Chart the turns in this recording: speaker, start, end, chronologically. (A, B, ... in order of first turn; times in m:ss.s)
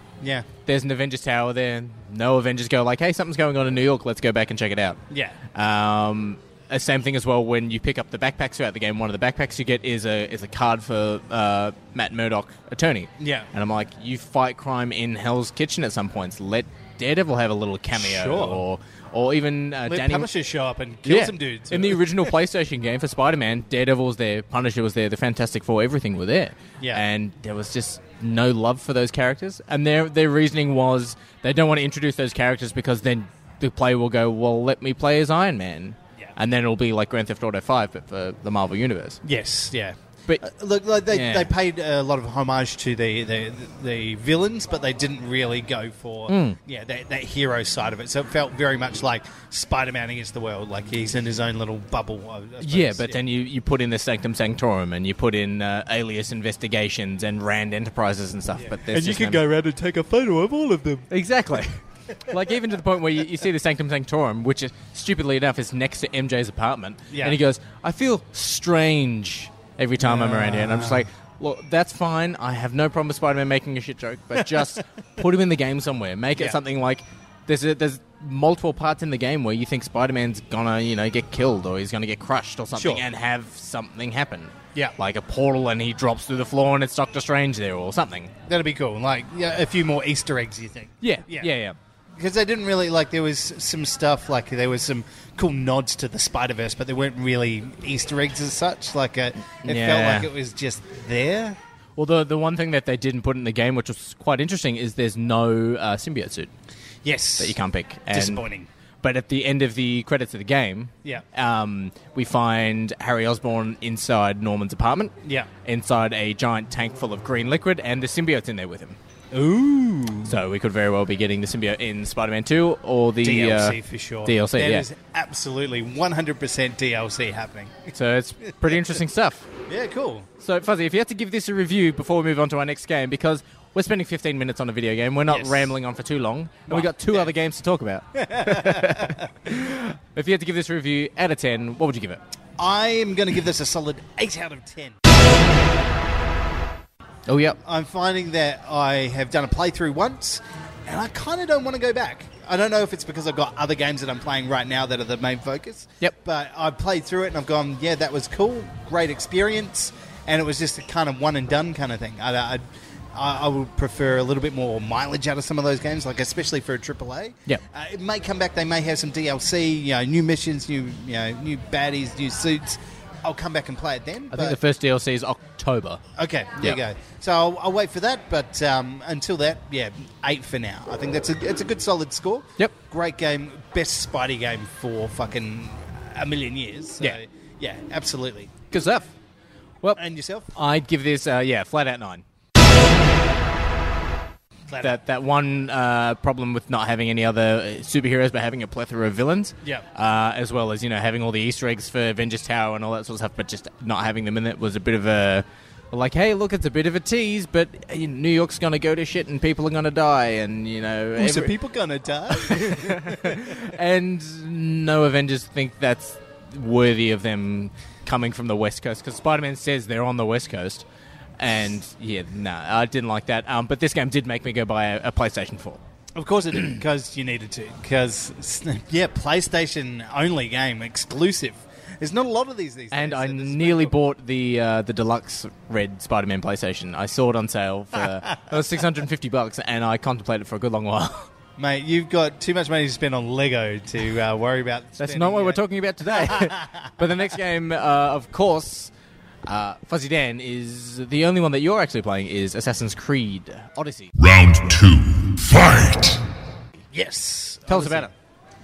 0:00.2-0:00.5 A
0:00.6-0:05.0 B
0:05.1-0:05.4 A
0:05.5-0:20.3 B
0:13.2-0:13.5 A
0:18.0-0:18.6 A
0:19.9-0:22.3 A
0:21.0-0:39.2 B
0:26.8-0:27.0 A
0:39.2-0:53.2 A
0:41.1-0:41.5 B
0:46.3-0:46.6 B
0:52.6-0:59.4 B
0:58.6-1:01.1 A
1:01.1-1:28.3 B
1:07.1-1:07.4 A
1:10.0-1:11.1 A
1:22.8-1:23.0 A
1:28.5-1:31.5 A
1:31.0-1:31.8 B
1:32.2-1:41.6 A
1:39.6-1:40.3 B
1:42.0-1:46.5 B
1:47.0-1:47.6 A
1:47.4-1:48.4 B
1:48.1-1:48.7 A
1:49.0-1:55.1 B
1:55.2-1:55.5 A
1:55.6-1:59.0 B
1:59.3-2:00.4 A
2:00.2-2:04.9 B
2:03.2-2:07.9 A
2:07.9-2:09.5 B
2:09.7-2:10.3 A
2:10.4-2:22.2 B
2:15.3-2:15.7 A
2:16.7-2:17.3 A
2:18.2-2:19.3 A
2:22.6-2:25.0 A
2:27.3-2:27.6 B
2:27.6-2:54.6 A
2:54.3-2:56.0 B
2:56.2-3:08.5 A
3:08.7-3:09.1 B
3:10.0-3:10.5 A
3:10.5-3:12.2 B
3:14.7-3:15.0 A
3:14.8-3:31.5 B
3:31.2-3:33.7 A
3:32.3-3:40.9 B
3:41.4-3:45.8 B
3:46.2-3:54.0 A
3:52.9-4:01.3 B
3:58.2-3:58.6 A
4:01.6-4:07.2 A
4:05.0-4:08.9 B
4:09.4-4:14.1 B
4:14.2-4:16.2 C
4:16.9-4:18.1 A
4:17.7-4:18.1 B